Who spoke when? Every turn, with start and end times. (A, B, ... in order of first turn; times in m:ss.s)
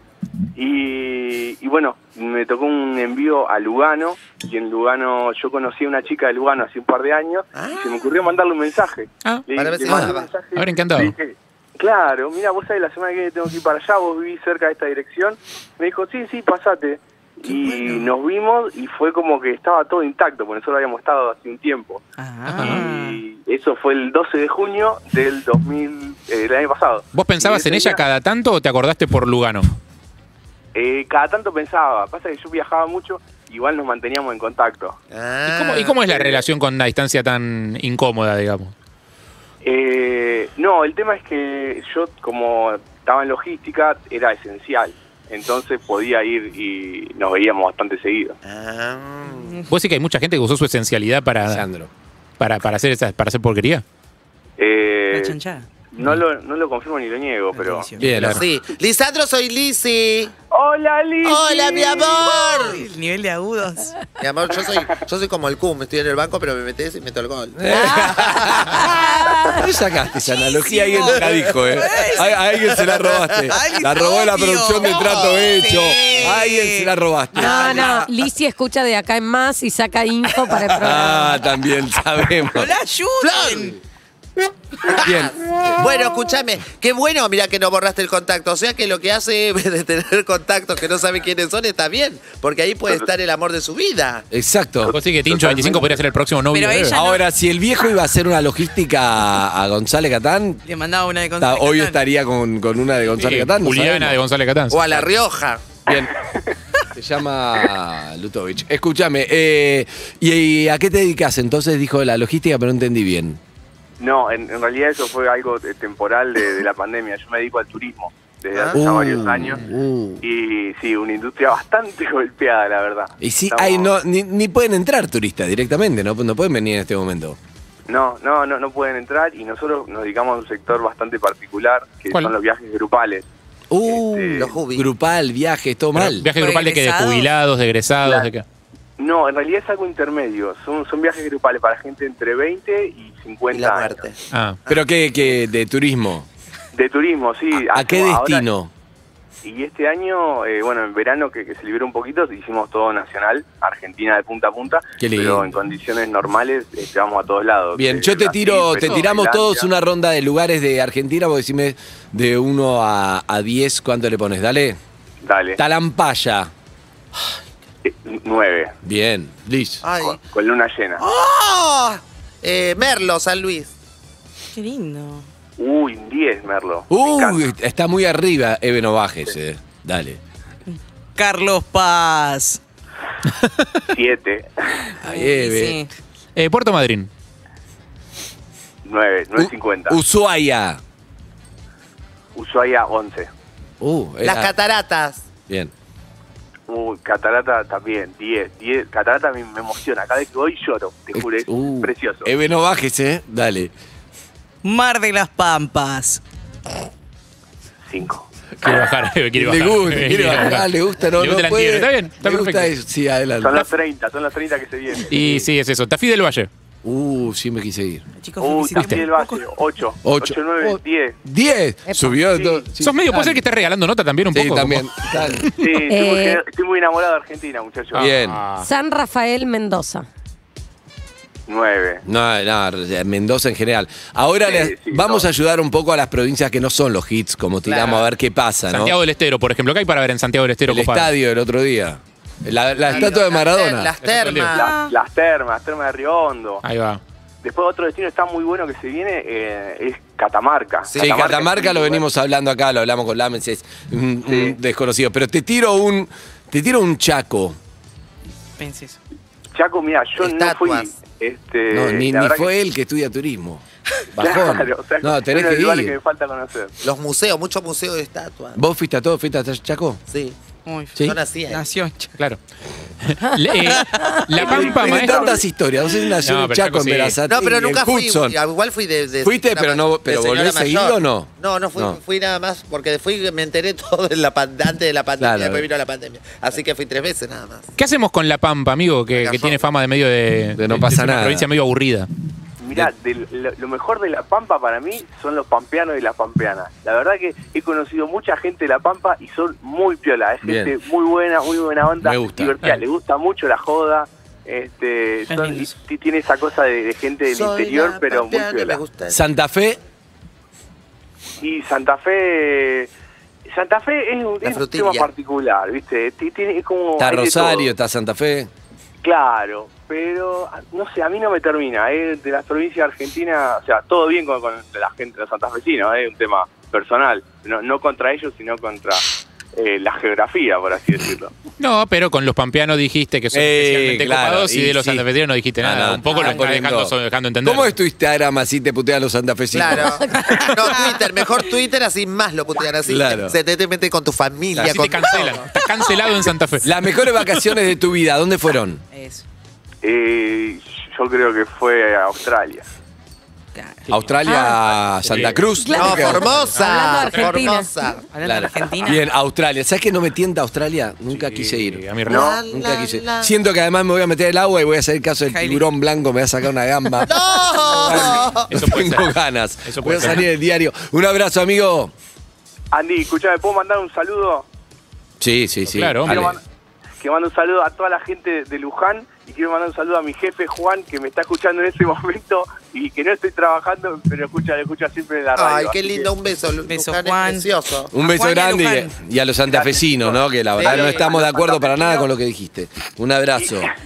0:00.6-0:22.0 A
0:07.5-0:08.0 B
0:09.5-0:10.3 B
0:09.9-0:10.1 C
0:10.5-0:11.1 D
0:17.5-0:18.1 E
0:22.2-0:23.2 E
0:22.6-0:28.0 A
0:27.1-0:29.7 D
0:30.7-0:35.0 A
0:35.1-0:36.2 B
0:35.5-0:38.7 D
0:39.6-0:48.4 A
0:48.4-0:49.6 B
0:49.4-0:49.7 E
0:49.7-0:51.6 D
0:51.5-0:51.9 C
0:52.4-0:53.8 D
0:54.6-0:57.9 A
0:55.1-0:55.7 E
0:57.5-0:58.3 E
0:58.0-0:58.4 C
0:58.1-0:58.4 D
0:58.2-1:00.3 B
1:00.5-1:02.3 A
1:01.2-1:02.8 B
1:01.8-1:04.0 E
1:04.2-1:09.2 B
1:07.6-1:17.8 C
1:09.3-1:09.6 F
1:10.5-1:12.3 E
1:12.8-1:13.5 B
1:13.5-1:16.9 E
1:14.8-1:15.5 B
1:17.4-1:18.1 B
1:17.4-1:21.4 F
1:17.5-1:17.9 E
1:20.8-1:22.7 C
1:22.5-1:23.8 E
1:23.2-1:23.8 B
1:24.8-1:34.2 B
1:24.9-1:25.3 C
1:34.3-1:35.9 C
1:34.9-1:37.0 D
1:36.5-1:37.2 E
1:36.9-1:40.6 C
1:40.6-1:42.0 E
1:41.4-1:44.2 C
1:43.1-1:44.9 D
1:44.7-1:45.7 B
1:45.8-1:46.1 C
1:46.9-1:53.4 C
1:54.0-1:59.6 A
1:58.5-1:59.0 B
1:58.7-2:00.2 C
2:00.2-2:03.9 A
2:03.2-2:07.4 C
2:07.9-2:13.2 A
2:13.7-2:16.3 C
2:13.8-2:14.5 A
2:14.4-2:14.9 B
2:15.9-2:18.4 D
2:16.3-2:17.3 E
2:19.0-2:24.0 A
2:23.5-2:24.8 B
2:24.3-2:24.6 D
2:24.7-2:26.3 C
2:26.7-2:28.4 A
2:27.5-2:28.7 C
2:29.4-2:39.7 A
2:35.0-2:35.5 C
2:37.7-2:44.8 C
2:45.2-2:45.6 A
2:45.6-2:46.5 C
2:47.8-2:48.7 A
2:48.8-2:49.8 C
2:49.8-2:50.2 B
2:50.0-2:51.0 A
2:51.0-2:53.7 B
2:54.5-2:55.3 E
2:55.6-2:57.5 A
2:56.9-3:00.2 C
3:00.7-3:02.6 E
3:03.4-3:03.6 D
3:03.9-3:04.6 A
3:05.0-3:05.8 C
3:05.0-3:05.9 E
3:06.4-3:07.1 D
3:08.8-3:10.0 A
3:09.3-3:10.8 C
3:12.3-3:13.3 A
3:13.8-3:14.5 C
3:14.2-3:15.2 B
3:16.7-3:22.3 A
3:21.1-3:23.7 C
3:24.6-3:26.2 E
3:27.9-3:28.2 A
3:28.6-3:32.7 D
3:28.6-3:33.6 C
3:33.4-3:35.2 A
3:35.1-3:36.5 D
3:35.1-3:35.5 C
3:36.8-3:38.0 C
3:38.2-3:39.4 E
3:38.4-3:41.2 A
3:38.8-3:39.0 D
3:40.0-3:43.4 C
3:41.9-3:42.3 F
3:42.8-3:45.0 D
3:44.3-3:45.5 C
3:45.6-3:48.2 A
3:45.8-3:46.4 F
3:47.9-3:48.4 C
3:48.1-3:48.7 D
3:48.5-3:50.0 F
3:51.5-3:52.0 A
3:52.0-3:59.0 C
3:54.4-3:55.3 A
3:57.6-3:58.1 B
3:58.7-4:01.1 D
4:00.7-4:03.9 C
4:02.8-4:04.7 B
4:04.0-4:04.6 D
4:04.5-4:04.9 E
4:04.6-4:06.6 A
4:06.6-4:07.0 D
4:07.4-4:12.0 A
4:10.9-4:11.3 B
4:11.0-4:17.6 C
4:18.6-4:19.0 E
4:19.5-4:22.5 A
4:20.2-4:20.9 B
4:21.7-4:23.6 C
4:24.1-4:26.0 C
4:24.2-4:26.7 A
4:26.8-4:28.6 B
4:28.6-4:30.0 C
4:30.1-4:30.4 B
4:30.6-4:32.2 E
4:31.0-4:31.6 B
4:33.0-4:35.4 D
4:34.3-4:38.4 C
4:34.4-4:35.3 E
4:34.6-4:35.2 A
4:36.2-4:37.2 D
4:37.2-4:47.7 B
4:39.2-4:42.0 C
4:45.2-4:45.6 C
4:47.8-4:52.1 D
4:49.1-4:49.7 B
4:50.6-4:51.5 C
4:52.6-5:08.8 A
5:00.4-5:00.7 C
5:02.0-5:02.5 C
5:05.3-5:05.7 E
5:07.3-5:09.2 B
5:09.1-5:09.8 C
5:11.4-5:12.9 A
5:13.4-5:17.7 A
5:14.4-5:15.1 B
5:17.0-5:18.5 C
5:19.0-5:31.3 A
5:31.6-5:37.7 D
5:33.3-5:35.0 C
5:35.6-5:40.4 C
5:39.5-5:45.5 B
5:40.1-5:40.5 F
5:42.8-5:43.4 C
5:44.5-5:46.7 D
5:45.7-5:46.3 E
5:46.6-5:48.8 C
5:48.9-5:49.2 E
5:49.8-5:52.6 A
5:53.5-5:53.9 E
5:53.9-5:56.4 C
5:54.3-5:54.5 F
5:55.0-5:55.4 D
5:55.4-5:57.7 F
5:55.8-5:58.0 B
5:56.6-5:57.4 D
5:58.1-5:59.0 E
5:58.2-6:11.9 C
6:01.1-6:02.4 D
6:02.0-6:03.3 B
6:05.3-6:05.6 E
6:07.0-6:08.5 B
6:08.5-6:09.1 D
6:09.6-6:10.2 D
6:12.7-6:14.4 A
6:15.2-6:16.4 C
6:15.7-6:16.4 D
6:16.1-6:16.4 A
6:17.0-6:26.1 A
6:25.3-6:27.9 B
6:26.7-6:29.0 E
6:27.9-6:33.7 C
6:29.5-6:32.1 A
6:30.6-6:31.1 B
6:33.4-6:33.7 A